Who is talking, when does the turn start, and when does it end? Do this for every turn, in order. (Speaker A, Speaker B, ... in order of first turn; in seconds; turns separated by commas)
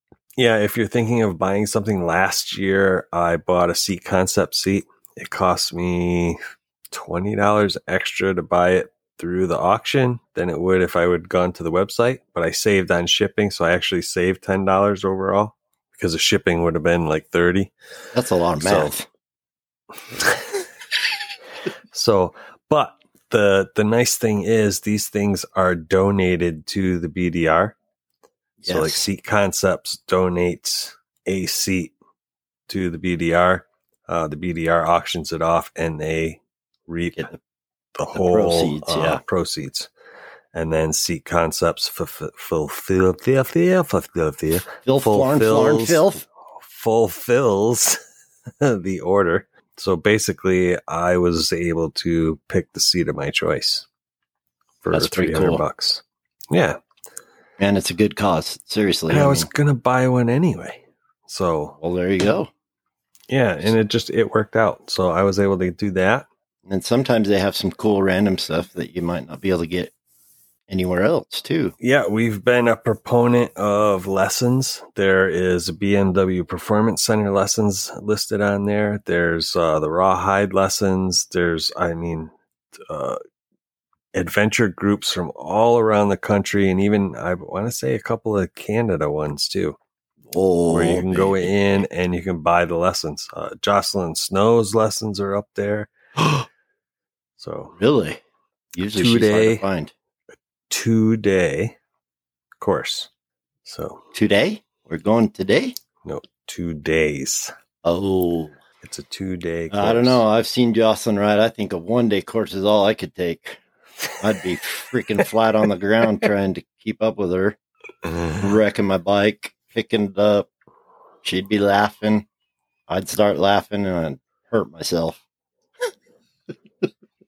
Speaker A: 0.4-6.4, Speaker A: 6.9-17.7, Speaker B: 18.1-19.1, Speaker A: 18.6-18.9, Speaker A: 20.1-20.5, Speaker A: 21.9-27.8, Speaker B: 28.6-29.0, Speaker A: 28.6-31.9, Speaker A: 32.7-37.3, Speaker A: 37.9-39.9, Speaker B: 38.1-39.2, Speaker A: 40.5-48.0, Speaker B: 44.8-46.2, Speaker A: 48.6-53.9, Speaker A: 54.8-56.8, Speaker B: 54.9-55.6, Speaker B: 57.6-59.5, Speaker A: 59.1-61.8, Speaker B: 61.8-62.5, Speaker A: 63.3-66.3, Speaker B: 66.7-69.9, Speaker B: 70.7-71.7, Speaker A: 71.8-83.2, Speaker A: 84.1-89.8, Speaker B: 90.3-91.5, Speaker A: 90.7-95.9, Speaker B: 96.2-96.5, Speaker A: 97.4-97.8, Speaker B: 97.8-98.2, Speaker B: 98.7-99.9, Speaker A: 98.9-99.6, Speaker A: 100.7-101.8, Speaker A: 102.6-103.1, Speaker A: 103.6-104.0, Speaker B: 104.1-105.8, Speaker A: 106.0-107.5, Speaker B: 107.8-108.5, Speaker A: 108.8-110.2, Speaker B: 109.7-113.6, Speaker B: 114.2-117.6, Speaker A: 118.1-118.5, Speaker B: 118.4-120.5, Speaker B: 121.2-122.2, Speaker B: 122.9-125.2